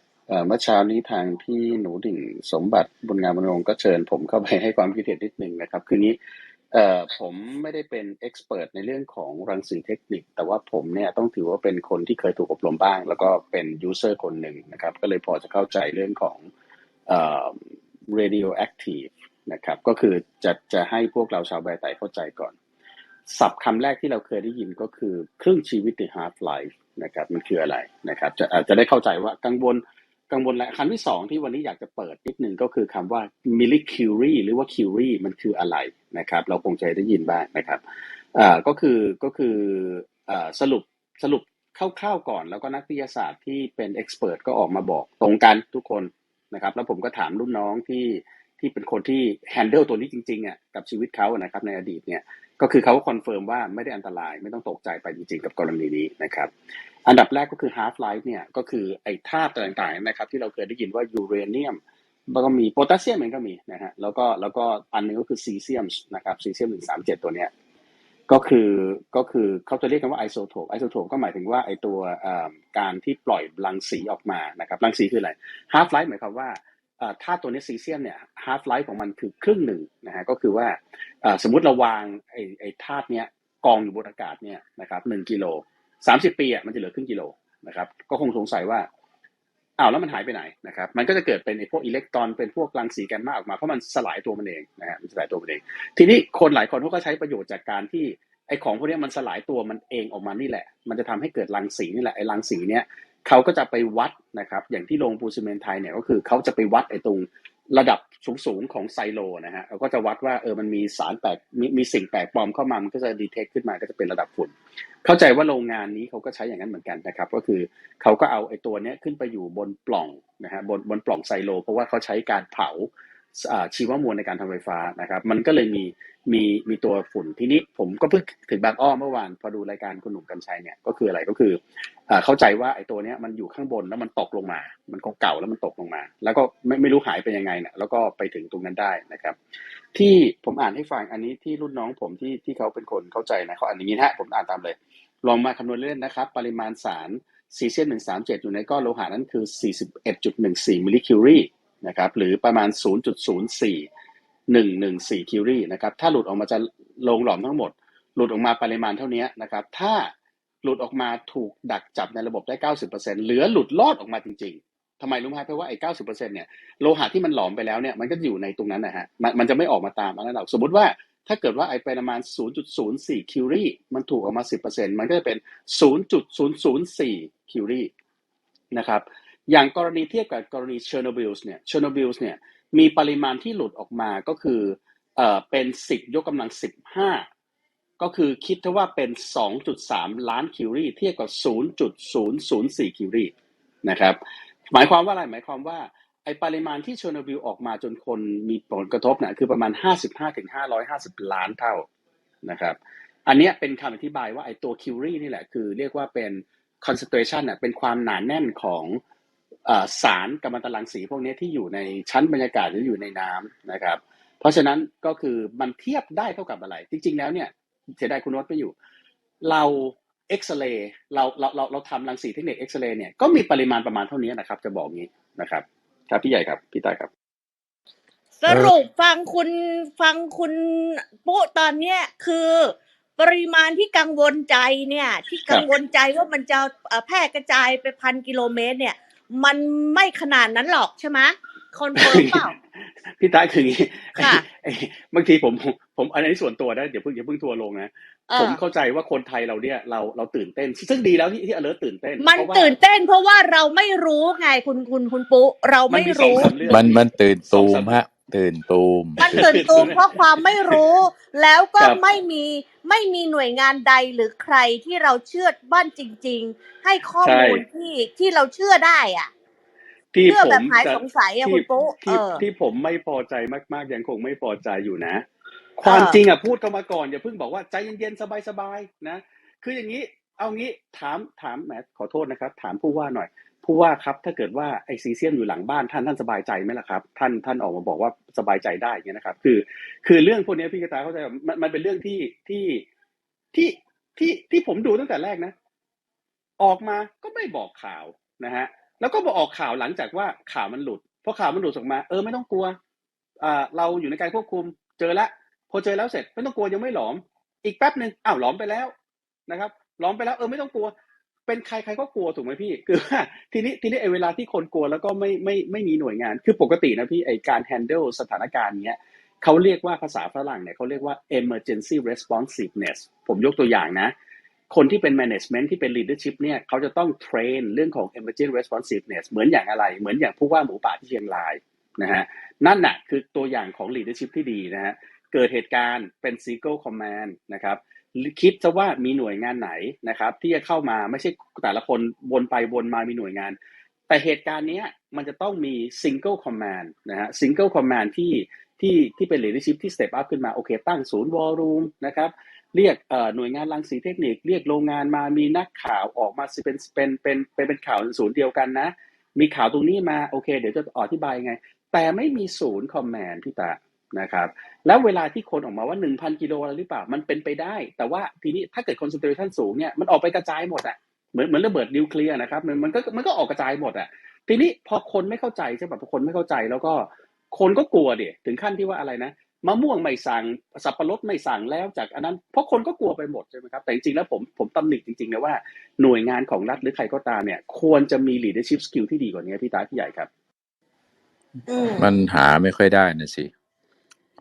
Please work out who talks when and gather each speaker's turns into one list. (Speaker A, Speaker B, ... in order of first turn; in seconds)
Speaker A: 0.3-6.2, 6.7-16.5, 17.1-22.5, 23.3-37.8, 38.3-56.5, 57.0-67.5, 68.3-88.9, 89.8-139.3, 139.9-153.9, 154.5-160.1, 160.6-177.9, 178.7-187.2, 188.0-193.3, 193.8-194.2, 194.7-201.8, 202.4-209.0, 209.7-218.7, 219.4-227.1, 242.0-252.7, 255.9-258.0, 259.2-260.8, 267.2-267.6, 270.1-275.2, 275.8-292.8, 293.5-295.5, 296.6-302.8, 303.4-308.9, 309.5-310.9, 311.5-324.1, 324.7-343.6, 344.1-390.3
Speaker B: 228.4-242.5, 244.2-244.4, 248.3-248.6, 252.2-256.8, 259.2-269.3, 270.2-272.4, 275.8-276.2, 391.7-392.1
Speaker C: 228.5-228.7, 256.7-259.9, 392.0-393.5